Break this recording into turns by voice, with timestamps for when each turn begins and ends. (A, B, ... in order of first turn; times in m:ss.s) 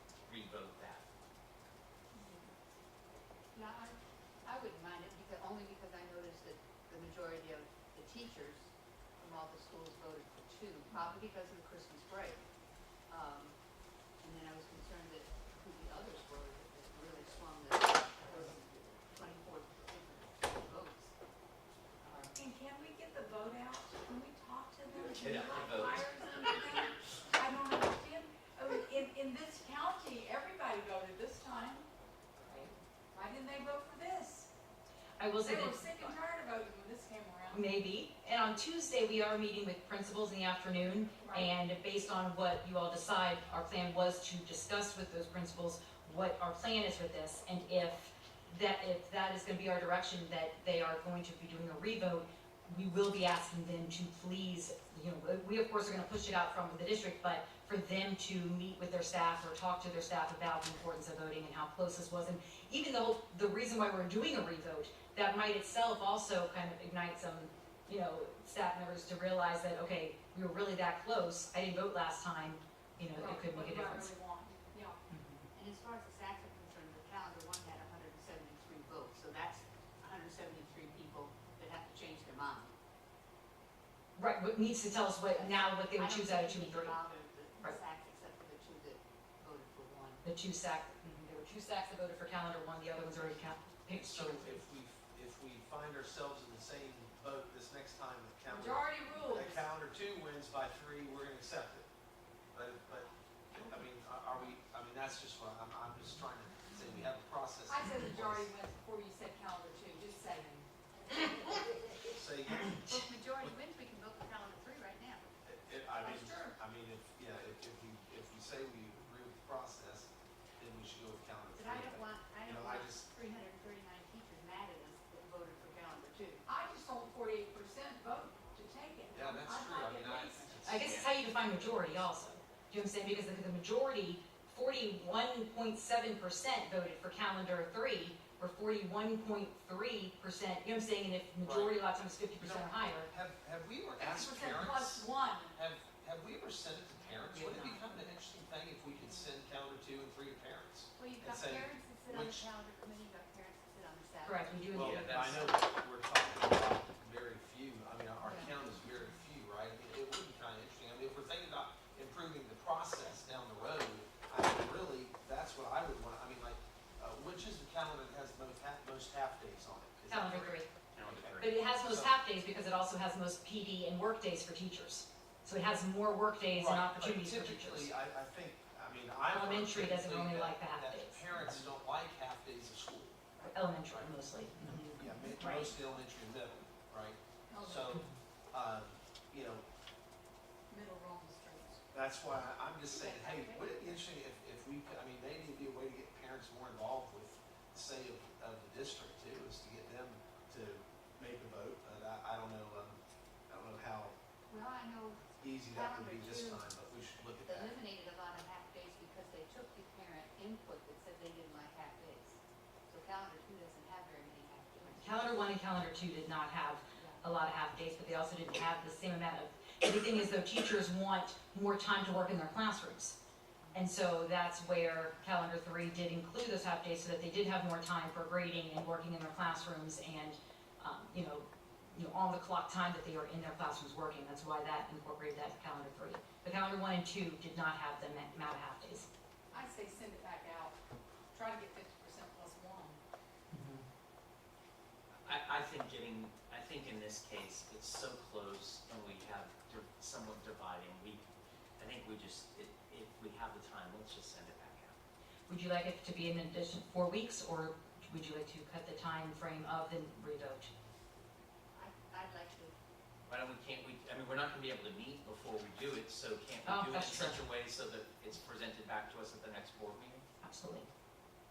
0:00.2-0:01.0 A
0:02.2-0:02.5 B
0:03.5-0:12.4 B
0:13.1-0:13.5 B
0:14.2-0:21.1 B
0:22.0-0:22.3 B
0:22.3-0:31.9 C
0:24.9-0:26.1 A
0:32.4-0:32.7 D
0:33.1-0:34.5 C
0:35.2-0:36.1 D
0:35.4-0:37.6 C
0:37.5-1:14.1 D
0:41.1-0:41.5 C
1:13.1-1:15.0 C
1:15.1-1:15.5 D
1:15.5-1:22.7 B
1:24.2-1:27.0 D
1:25.2-1:30.2 B
1:30.2-1:34.6 D
1:33.9-1:41.9 E
1:38.5-1:39.6 C
1:42.5-1:48.5 E
1:47.7-1:50.7 C
1:51.2-1:51.6 B
1:52.1-1:52.8 E
1:52.7-1:55.3 B
1:55.4-2:03.1 E
1:56.0-1:56.5 C
2:01.5-2:06.4 B
2:06.4-2:10.5 C
2:09.1-2:11.0 E
2:10.6-2:23.1 D
2:10.7-2:11.1 A
2:21.4-2:21.7 E
2:22.4-2:32.5 E
2:24.0-2:25.6 C
2:27.3-2:27.8 D
2:31.0-2:35.1 B
2:34.2-2:35.1 D
2:34.7-2:52.1 E
2:34.7-2:35.5 A
2:38.2-2:38.5 B
2:50.1-2:50.7 D
2:50.9-2:51.5 A
2:51.4-2:57.9 D
2:56.5-3:03.2 E
2:59.3-3:01.7 D
3:03.4-3:05.7 D
3:05.0-3:09.6 E
3:07.5-3:08.0 C
3:10.7-3:11.8 C
3:11.9-3:24.1 E
3:12.8-3:14.0 B
3:24.5-3:26.7 B
3:25.4-3:27.8 E
3:27.4-3:35.4 B
3:35.0-3:43.2 D
3:36.9-3:37.2 B
3:43.6-3:43.9 B
3:43.7-3:59.1 D
3:59.5-4:00.8 C
4:01.3-4:03.0 C
4:03.5-4:03.8 D
4:05.2-4:11.2 A
4:11.8-4:15.0 A
4:15.5-4:20.7 D
4:21.7-4:22.7 B
4:23.3-4:30.2 A
4:26.6-4:27.4 D
4:30.4-4:30.9 D